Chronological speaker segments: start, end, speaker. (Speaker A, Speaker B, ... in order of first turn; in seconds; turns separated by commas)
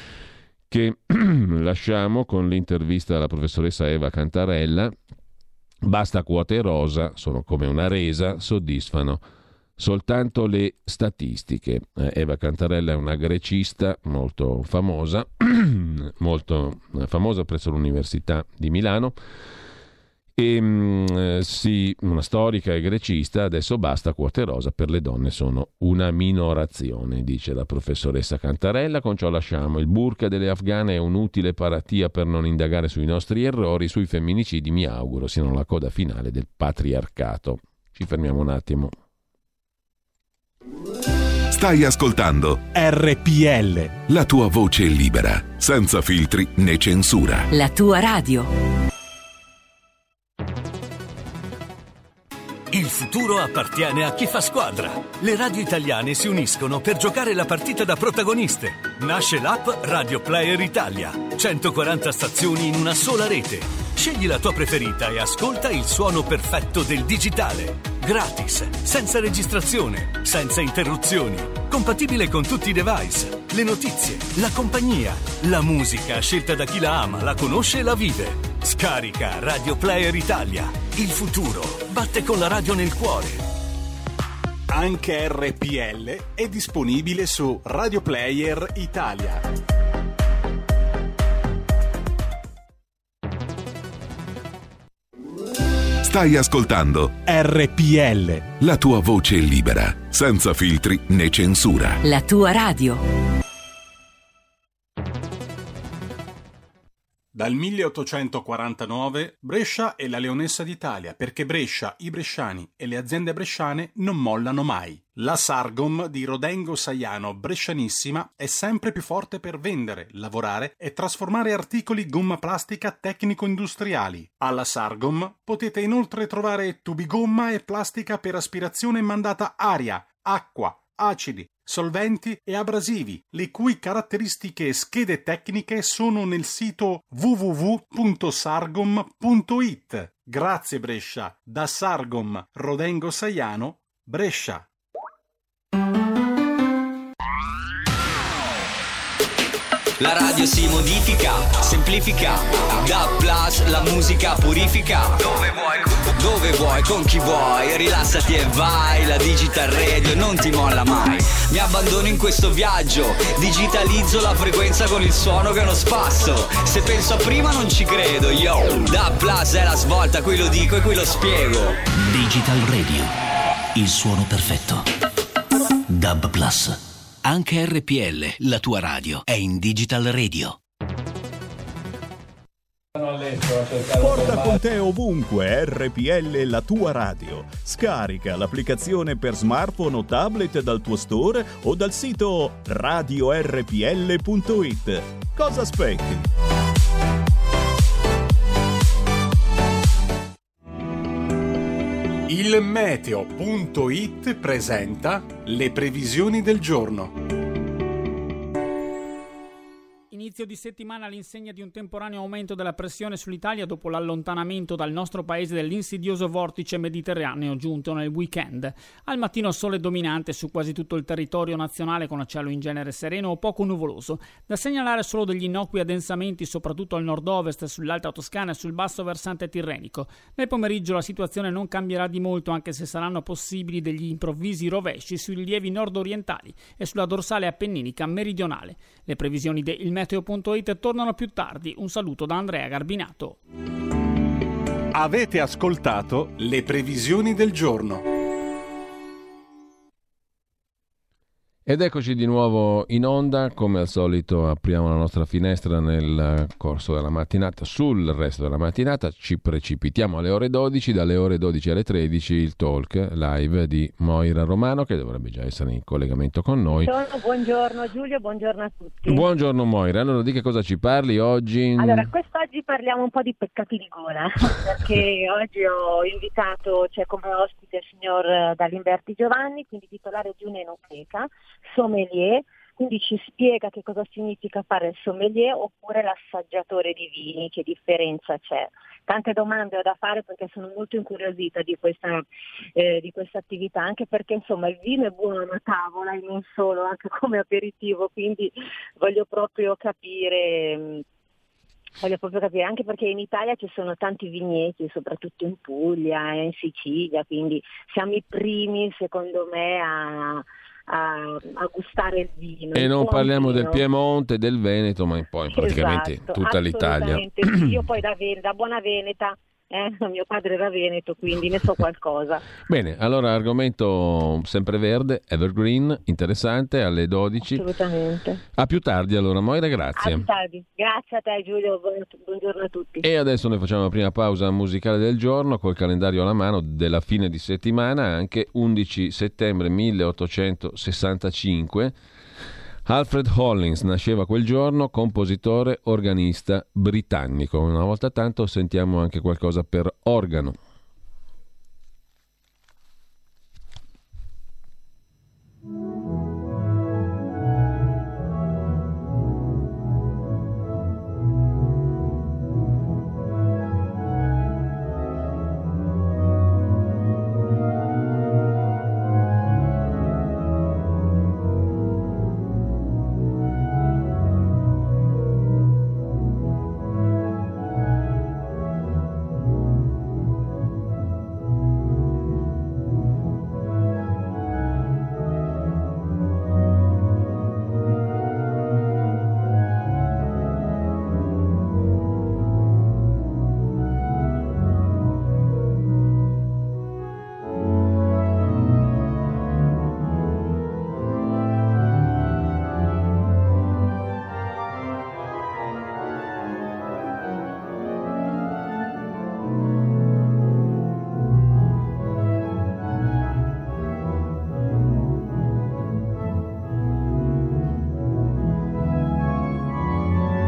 Speaker A: 0.7-4.9, Speaker A: 5.8-9.2, Speaker A: 9.8-19.2, Speaker A: 20.4-38.9, Speaker B: 41.5-42.6, Speaker C: 42.7-44.0, Speaker B: 44.1-47.5, Speaker D: 47.5-48.5, Speaker E: 52.7-83.5, Speaker C: 84.7-89.5, Speaker B: 96.0-97.2, Speaker C: 97.3-98.5, Speaker B: 98.6-102.0, Speaker D: 102.0-103.0, Speaker C: 107.3-144.7, Speaker F: 150.0-171.8, Speaker G: 171.9-173.1, Speaker G: 173.7-174.9, Speaker G: 175.9-180.6, Speaker H: 183.7-196.3, Speaker C: 202.3-207.1, Speaker I: 210.1-243.4, Speaker C: 244.9-248.0, Speaker A: 251.7-266.9, Speaker J: 266.8-269.2, Speaker A: 269.1-272.1, Speaker J: 271.8-292.2, Speaker J: 292.8-301.0, Speaker J: 302.0-313.8, Speaker A: 312.7-317.7, Speaker J: 315.5-322.5, Speaker A: 322.7-327.6, Speaker J: 327.5-328.4, Speaker A: 328.6-330.3, Speaker J: 330.0-333.1, Speaker A: 333.0-341.9, Speaker A: 342.9-350.6